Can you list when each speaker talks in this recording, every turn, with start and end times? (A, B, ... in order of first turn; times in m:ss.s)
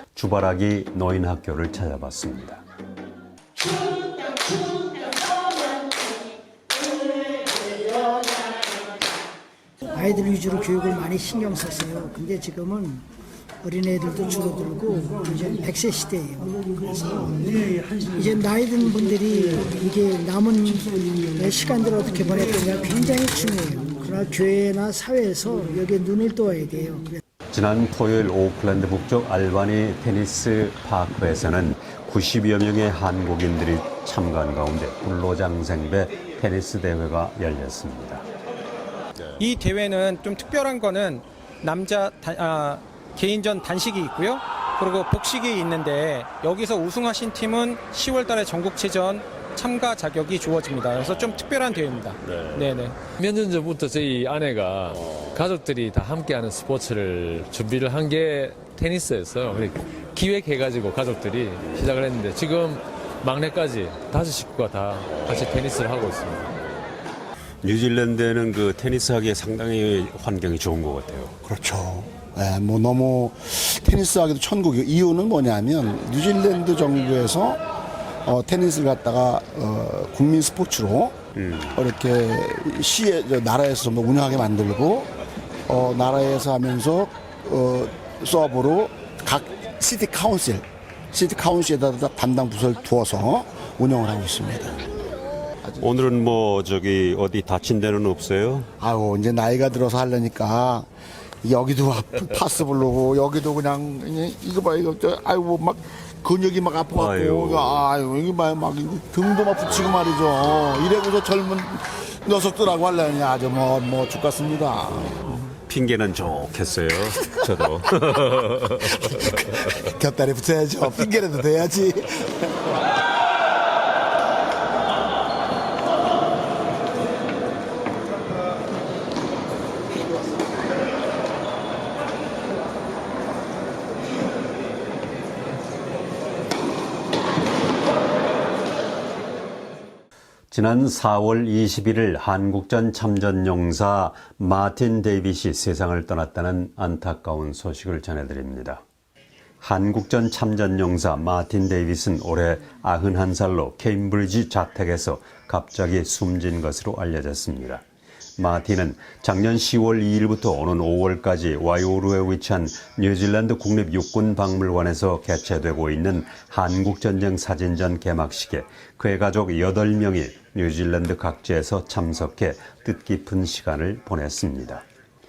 0:00.2-0:02.6 A
0:09.9-0:13.1 B
0:13.6-0:17.4 B
0:18.1-0:27.2 B
0:27.5-0:38.2 A
0:39.4-0:53.0 C
0:53.1-1:06.6 D
1:07.6-1:11.4 A
1:11.4-1:17.6 E
1:18.2-1:21.2 E
1:21.4-1:21.8 A
1:21.8-1:25.1 E
1:25.7-1:34.8 E
1:35.8-1:38.7 A
1:38.8-1:40.9 E
1:41.4-1:55.4 E
1:46.9-1:47.9 A
1:55.3-1:59.4 A
1:59.3-2:02.8 E
2:20.5-2:28.8 A
2:29.6-2:37.8 A
2:38.4-2:54.8 A